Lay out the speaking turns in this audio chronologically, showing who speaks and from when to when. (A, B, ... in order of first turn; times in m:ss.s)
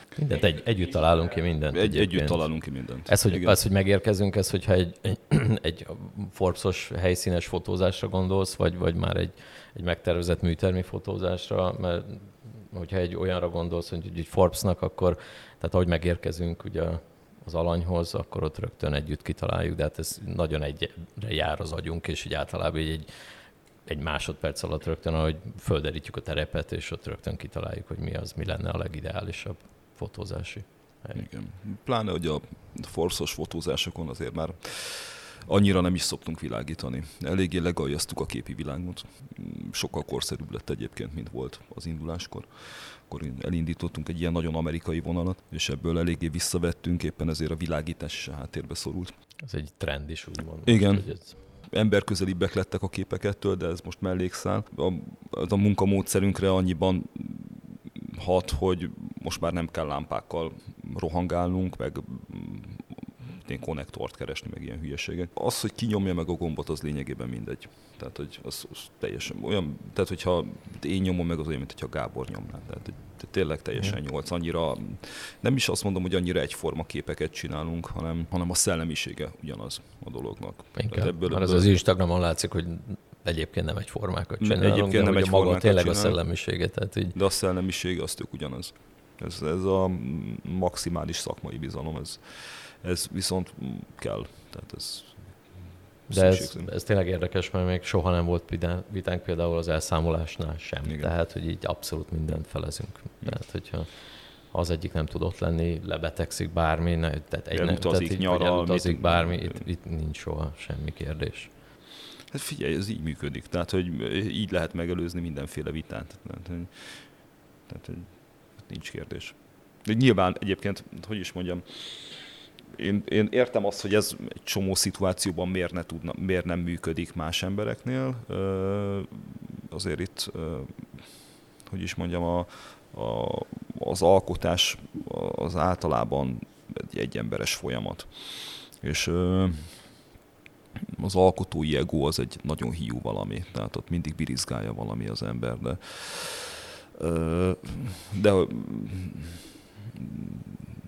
0:00.2-0:31.3 A
0:01.7-0:03.6 B
0:31.2-0:49.2 B
0:49.4-0:51.3 A
0:50.7-1:21.7 B
1:20.8-1:27.2 A
1:24.4-1:26.4 B
1:27.1-1:36.7 B
1:36.1-1:51.5 A
1:40.8-1:41.1 B
1:47.5-1:49.7 B
1:52.3-2:20.0 B
2:21.0-2:30.6 B